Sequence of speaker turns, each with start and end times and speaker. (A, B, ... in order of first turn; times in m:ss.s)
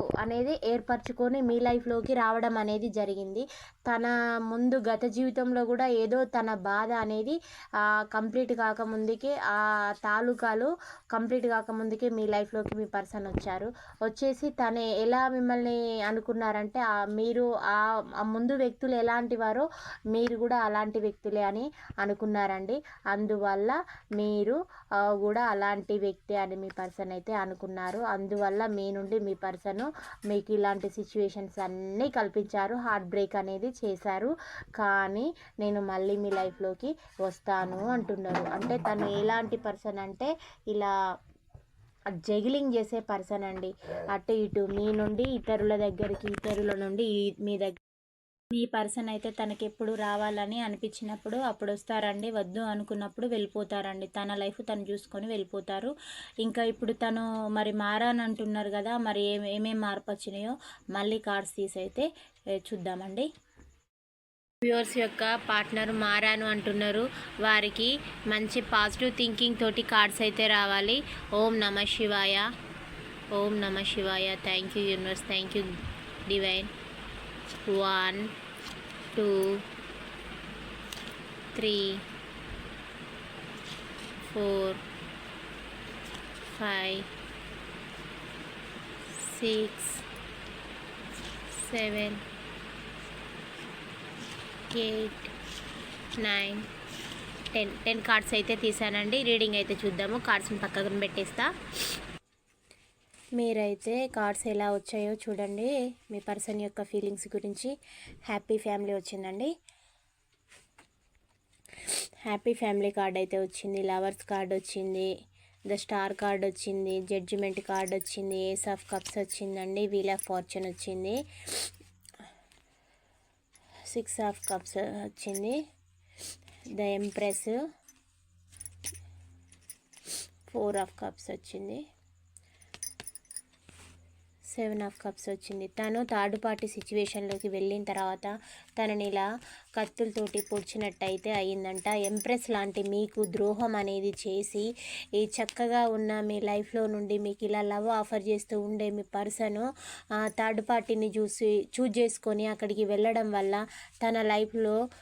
0:00.2-0:40.9 A
0:42.1-0:47.8 A
0:48.5-1:03.3 A
1:04.6-1:12.5 A
1:13.3-1:15.8 A
1:16.3-1:16.7 A
1:17.6-1:18.3 A
1:19.1-1:19.6 A
1:21.5-1:22.0 A
1:24.3-1:24.8 A
1:26.5-1:27.1 A
1:29.1-1:30.0 A
1:31.5-1:32.2 A
1:34.7-1:35.3 A
1:36.2-1:36.7 A
1:37.5-1:41.5 A
1:43.4-1:47.7 A
1:48.2-1:49.5 A
1:51.8-1:55.1 A
1:55.7-2:01.7 A
2:03.9-2:05.6 A
2:06.7-2:07.6 A
2:10.5-2:11.8 A
2:14.5-2:34.8 A